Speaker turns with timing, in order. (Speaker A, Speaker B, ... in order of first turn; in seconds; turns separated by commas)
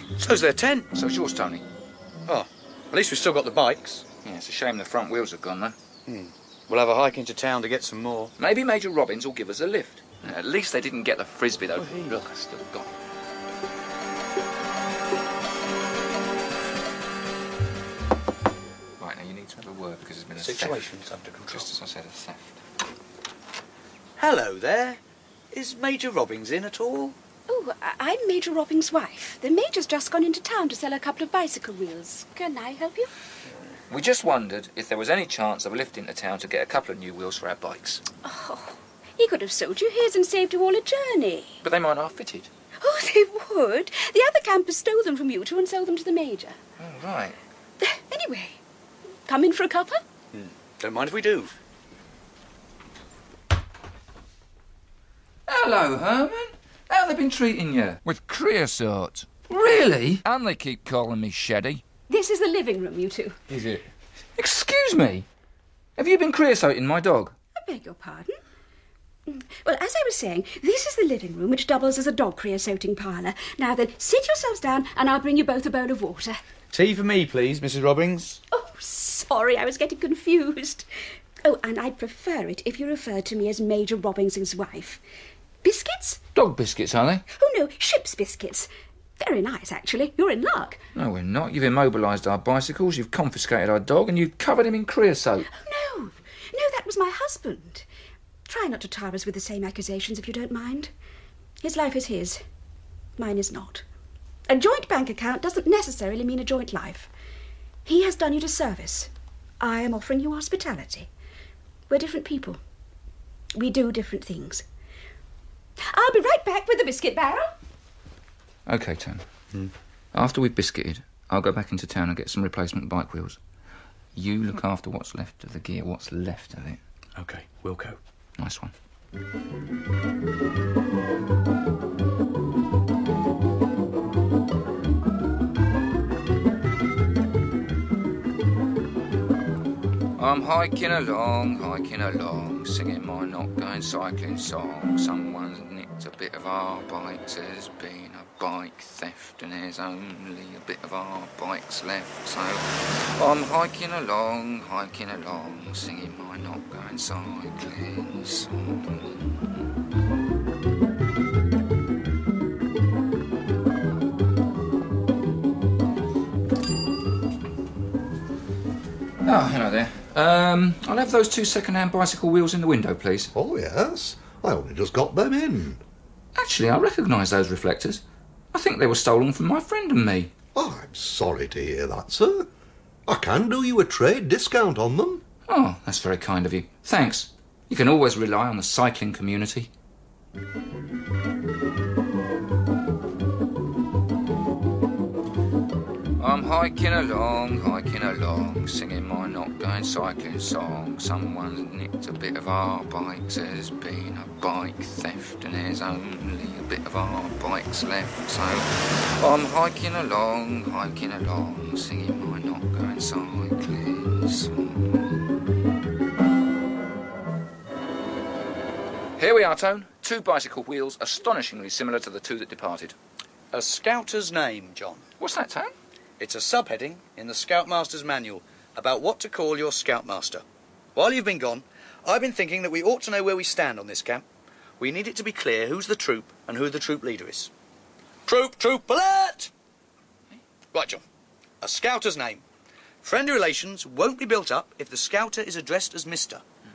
Speaker A: 0.2-0.9, Speaker B: 0.9-1.6, Speaker A: 2.3-4.1, Speaker B: 4.2-5.7, Speaker A: 6.0-8.3, Speaker B: 8.4-12.9, Speaker A: 11.8-12.2, Speaker B: 19.0-20.9, Speaker A: 20.4-21.7, Speaker B: 21.5-22.6, Speaker A: 24.2-25.0, Speaker A: 25.5-27.1, Speaker C: 27.5-33.1, Speaker B: 33.9-38.0, Speaker C: 38.2-41.6, Speaker B: 41.6-42.5, Speaker C: 42.8-46.6, Speaker B: 46.8-47.4, Speaker C: 47.8-48.6, Speaker C: 49.2-50.0, Speaker A: 50.3-51.5, Speaker B: 55.5-61.8, Speaker C: 62.1-63.4, Speaker B: 63.5-63.8, Speaker B: 64.4-65.2, Speaker B: 66.0-67.3, Speaker C: 67.5-68.4, Speaker C: 69.3-76.4, Speaker A: 76.7-78.4, Speaker C: 78.5-80.9, Speaker C: 81.4-85.0, Speaker C: 85.6-86.2, Speaker B: 86.3-87.2, Speaker C: 87.3-90.8, Speaker B: 90.9-95.5, Speaker C: 95.5-97.8, Speaker C: 98.5-100.9, Speaker C: 101.6-102.4, Speaker C: 103.2-103.8, Speaker C: 104.5-107.1, Speaker C: 107.8-111.1, Speaker C: 111.9-112.6, Speaker C: 113.5-114.6, Speaker C: 115.8-117.5, Speaker B: 118.7-119.2, Speaker B: 120.1-123.4, Speaker B: 124.1-126.8, Speaker A: 127.2-128.0, Speaker B: 128.4-128.7, Speaker B: 140.2-159.4, Speaker B: 169.2-173.3, Speaker D: 173.3-175.8, Speaker B: 176.3-180.3, Speaker D: 180.5-182.5, Speaker D: 183.1-185.2, Speaker B: 185.5-189.7, Speaker B: 196.2-215.1, Speaker B: 219.2-222.9, Speaker A: 223.5-225.0, Speaker B: 225.2-225.7, Speaker A: 226.2-230.4, Speaker A: 230.9-234.2, Speaker A: 234.8-237.5, Speaker A: 238.2-239.5, Speaker A: 240.7-241.0, Speaker A: 241.6-242.4, Speaker A: 243.0-246.4